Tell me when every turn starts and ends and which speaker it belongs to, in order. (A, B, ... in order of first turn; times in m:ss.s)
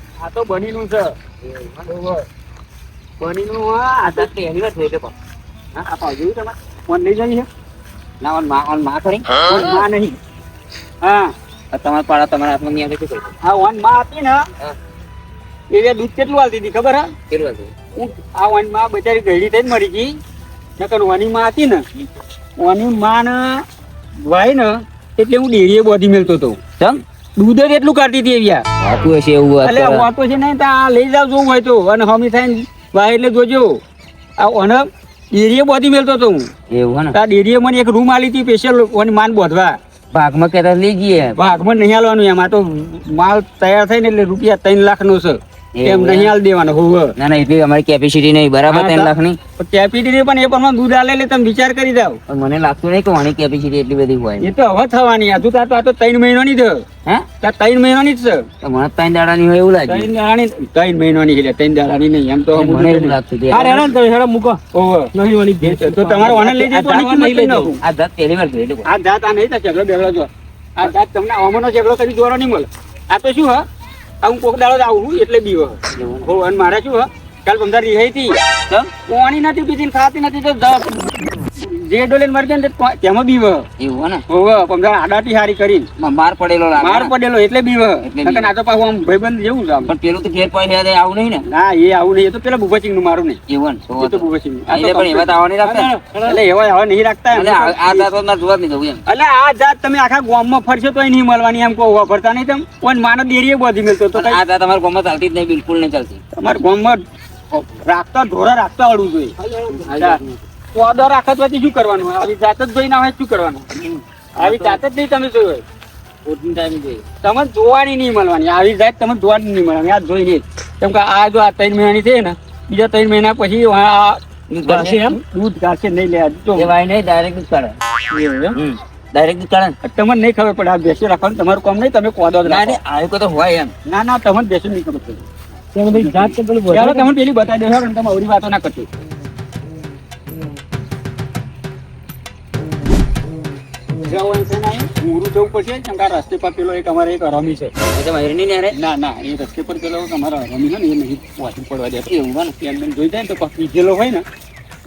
0:00.2-0:01.2 A
0:01.4-0:01.9 B
0:01.9-0:02.2 A
0:03.2-0:04.3 A
0:04.1-0:05.1 B
0:05.8-0:07.5 A
0:08.2-0:09.7 B
0:09.4-0:10.2 A
0:11.0-0:11.3 A
0:11.7-0:13.3 B
0:13.4-0:14.4 A
0:15.7-0:17.1 A
0:17.3-0:17.7 B
0:18.0-0:20.2 A
0:20.8-0:21.8 A
0:22.6-0:23.6 A
0:24.2-0:26.6 A
0:27.4-0:28.6 A
0:28.8-0:30.1 B
0:29.6-0:33.8 A
0:34.4-0:36.5 A
0:36.7-0:37.1 B
0:37.1-0:39.8 A
0:40.1-0:41.4 B
0:41.4-0:47.2 A
0:45.7-0:46.3 B
0:47.2-0:49.4 B
0:48.7-0:52.2 A
0:52.3-0:54.5 B
0:54.4-0:56.8 A
0:57.4-0:58.4 A
0:58.6-1:00.1 B
0:59.9-1:03.2 A
1:02.5-1:03.9 B
1:03.5-1:04.6 C
1:04.7-1:05.1 A
1:05.1-1:07.8 C
1:05.6-1:07.8 A
1:07.8-1:08.9 B
1:08.8-1:13.6 A
1:14.2-1:18.4 A
1:15.9-1:16.3 B
1:19.0-1:23.6 A
1:23.8-1:24.2 B
1:24.3-1:25.9 A
1:26.0-1:27.1 B
1:26.8-1:29.9 A
1:28.0-1:28.5 B
1:29.9-1:31.4 B
1:31.5-1:33.4 A
1:33.5-1:35.9 B
1:34.0-1:35.3 A
1:35.6-1:36.4 C
1:36.2-1:38.1 A
1:37.3-1:39.0 B
1:39.0-1:44.4 A
1:44.1-1:46.2 B
1:46.4-1:47.0 A
1:47.5-1:49.3 A
1:49.4-1:50.1 C
1:49.8-1:50.4 B
1:50.7-1:53.7 A
1:53.8-1:54.8 B
1:54.4-1:55.6 A
1:56.2-1:57.0 B
1:57.2-2:06.7 A
2:04.5-2:05.0 B
2:04.7-2:05.2 C
2:06.5-2:07.8 B
2:08.1-2:08.6 C
2:08.5-2:09.8 B
2:09.8-2:12.8 A
2:12.4-2:13.7 B
2:13.8-2:15.2 A
2:15.7-2:17.1 C
2:15.9-2:18.9 A
2:24.0-2:27.7 A
2:27.9-2:28.8 B
2:28.7-2:32.1 A
2:32.0-2:32.5 B
2:32.6-2:34.2 A